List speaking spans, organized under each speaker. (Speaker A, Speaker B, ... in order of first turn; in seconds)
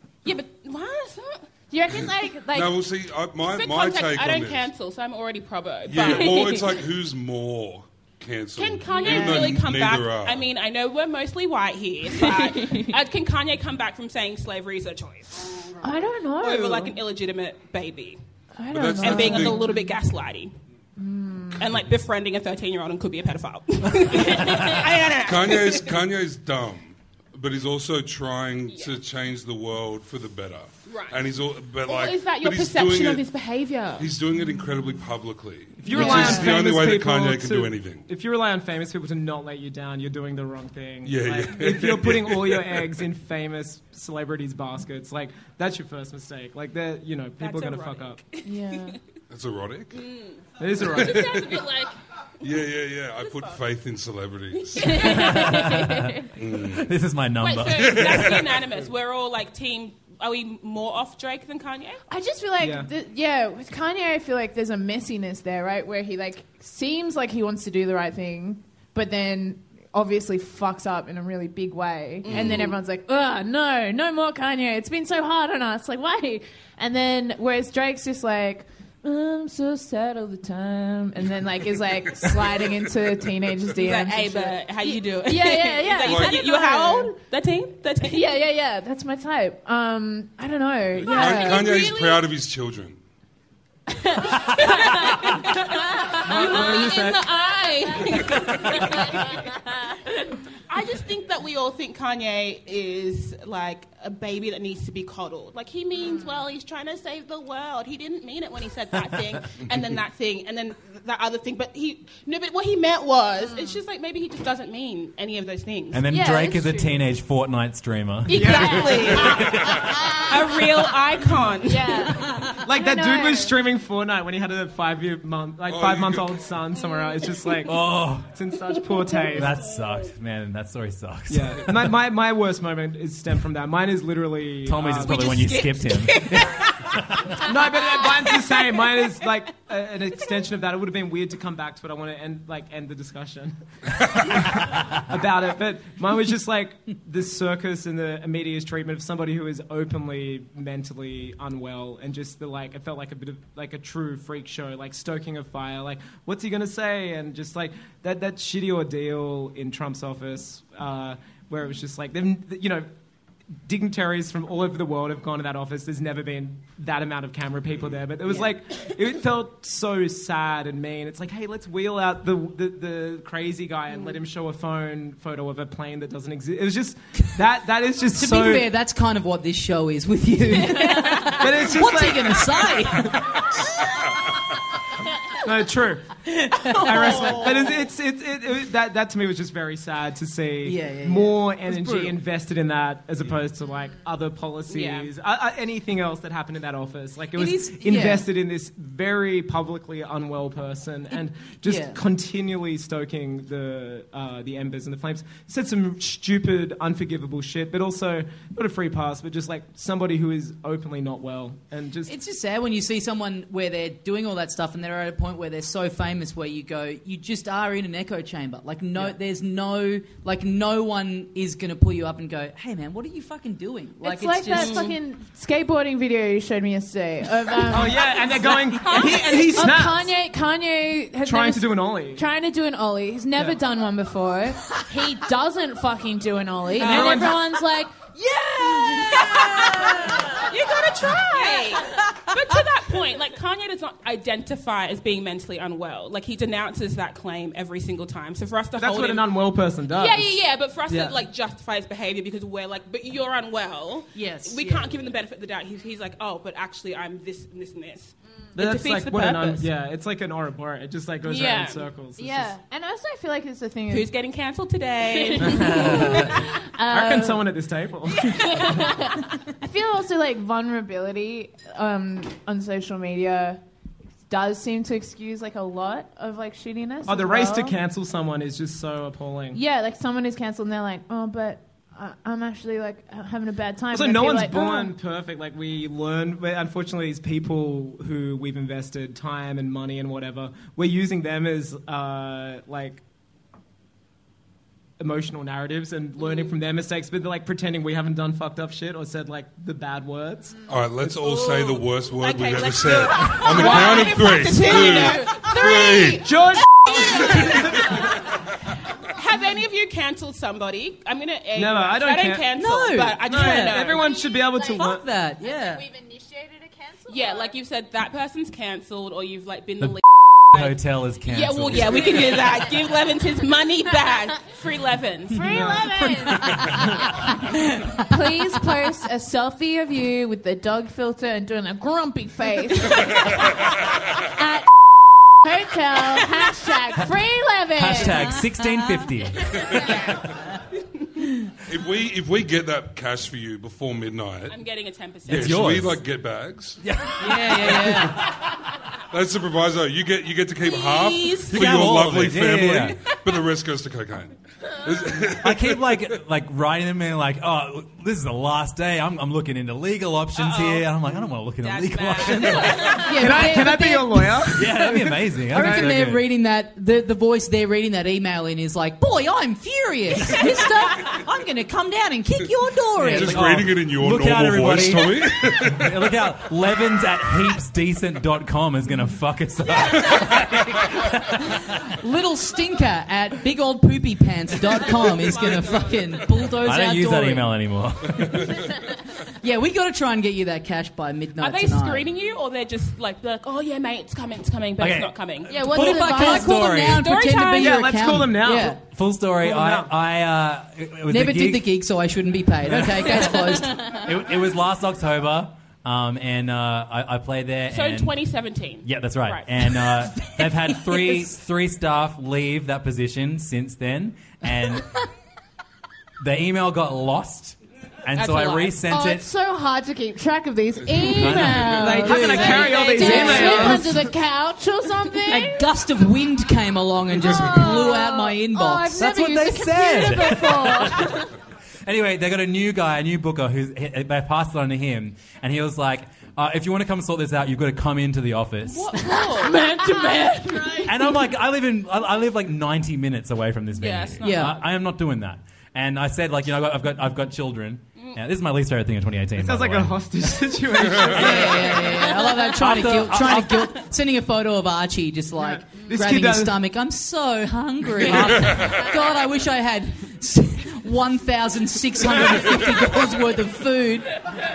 Speaker A: 0.2-1.5, 3.4-6.8, 8.6-15.7, 16.4-18.2, 19.0-20.5, 21.6-26.0, 28.7-29.0, 30.9-31.2, 31.8-34.1, 47.4-49.0, 49.9-52.0, 53.2-53.6, 54.6-55.9, 57.4-62.0, 72.3-72.7, 83.8-88.2, 91.2-92.1, 94.5-99.3, 100.7-116.0, 118.3-119.5, 120.2-122.2, 126.8-127.3, 134.9-136.7, 137.9-138.6, 187.0-187.5, 194.7-195.1, 224.5-225.0, 228.7-229.7, 236.8-237.4, 238.6-249.3, 249.8-259.7, 261.2-261.9, 263.9-266.4, 296.2-296.5, 301.2-308.0, 309.1-314.0, 317.1-325.8, 339.8-340.1, 344.5-345.6, 350.6-351.7, 353.0-353.3, 360.3-363.3, 384.7-386.4, 391.4-397.7, 407.7-409.5, 438.6-440.8, 443.8-444.4
Speaker B: 1.7-2.8, 9.0-9.4, 15.8-16.9, 18.6-19.9, 21.0-21.6, 35.9-36.5, 48.4-49.0, 55.0-55.9, 62.1-87.2, 88.0-92.1, 94.2-95.2, 96.3-98.0, 113.5-113.7, 116.1-117.0, 118.7-119.2, 121.6-123.5, 224.0-228.1, 228.9-238.1, 238.9-239.3, 262.2-264.1, 265.1-267.4, 268.2-273.6, 274.3-277.8, 279.5-284.9, 325.3-326.6, 328.0-333.4, 334.3-334.6, 335.4-338.4, 395.8-396.6, 418.8-425.6, 427.2-431.2, 439.6-440.8
Speaker C: 1.9-4.7, 5.8-10.5, 18.7-19.6, 25.2-33.2, 34.0-38.1, 41.0-42.9, 49.3-50.0, 51.0-51.6, 52.4-55.0, 56.4-56.9, 57.8-58.6, 86.0-86.4, 91.0-93.0, 125.7-126.4, 300.7-306.3, 341.7-344.6, 345.2-346.8, 349.1-356.1, 373.0-376.1
Speaker D: 35.8-48.2, 50.6-51.4, 62.6-62.9, 96.3-97.2, 118.3-119.1, 122.6-129.5, 131.3-135.2, 137.4-143.5, 144.2-162.9, 163.6-178.7, 181.4-183.1, 185.4-186.1, 186.8-212.1, 227.7-230.1, 231.2-232.2, 236.8-237.3, 248.8-250.4, 258.6-262.5, 266.9-268.4, 277.1-279.6, 283.9-293.0, 295.0-300.6, 302.8-304.2, 306.2-307.9, 311.5-312.5, 313.3-315.1, 363.1-366.0, 397.6-398.8, 399.4-399.9, 421.9-424.0, 449.4-452.0, 455.4-456.6
Speaker E: 55.1-56.1, 56.7-58.4, 115.9-119.9, 127.6-128.3, 129.3-131.9, 134.6-136.7, 319.8-322.5, 337.8-339.6, 345.3-346.0, 346.8-348.1, 351.5-353.0, 355.4-363.1, 364.5-366.2, 373.0-381.6, 386.5-388.6, 394.8-397.1, 398.8-401.7, 402.7-408.2, 408.8-414.9, 416.2-419.2, 421.0-422.1, 428.9-431.2, 431.8-439.1, 440.8-450.0, 452.4-453.7
Speaker F: 178.1-183.2, 186.4-187.5, 190.6-192.2, 197.3-198.3, 201.6-202.0, 212.1-224.8, 254.1-254.9, 312.6-313.9, 314.8-315.9, 347.2-348.1, 363.1-364.8, 365.5-373.7, 382.0-387.5, 389.4-392.1, 395.5-398.8, 401.1-404.0, 421.7-423.9, 425.3-429.1, 444.2-444.6, 451.1-464.1